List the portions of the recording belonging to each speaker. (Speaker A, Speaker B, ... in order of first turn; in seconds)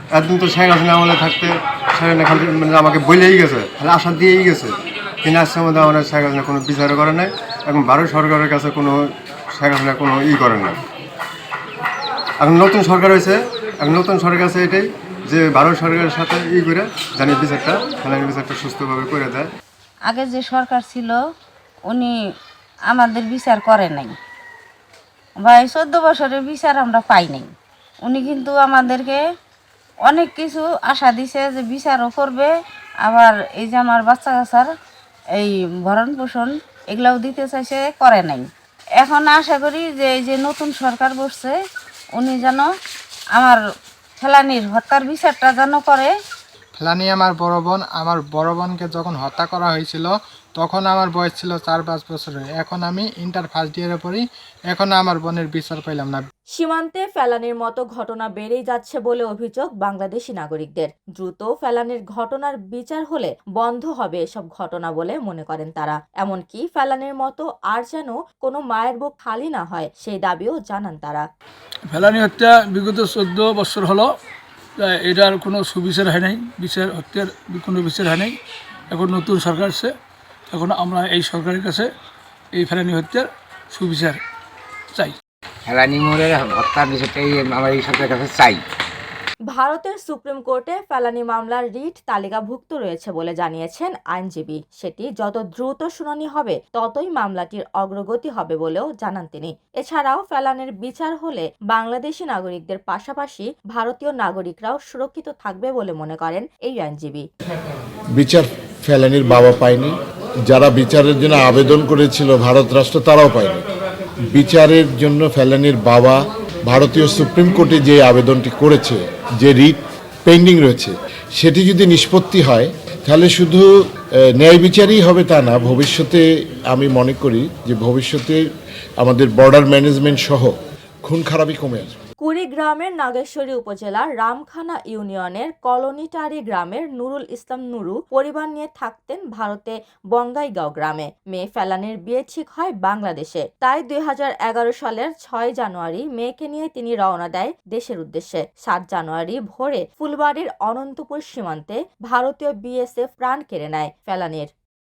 Speaker A: 0.2-1.5, 2.0-4.7, 5.2-8.9, 9.6-10.7, 12.4-19.4
Speaker B: 20.1-21.2, 21.9-22.1, 22.9-24.1, 25.4-27.5, 28.0-29.2, 30.1-32.5, 33.0-34.7, 35.4-38.5, 39.0-41.5, 42.2-42.6, 44.2-46.1
Speaker C: 46.8-56.2
Speaker D: 56.6-71.2, 89.5-107.2, 132.2-154.5
Speaker E: 71.9-74.1, 74.8-78.3, 78.9-79.9, 80.5-81.9, 82.6-84.2
Speaker F: 85.7-88.6
Speaker G: 108.2-110.0, 110.5-113.6, 114.3-123.7, 124.4-128.4, 129.0-130.5, 131.1-131.9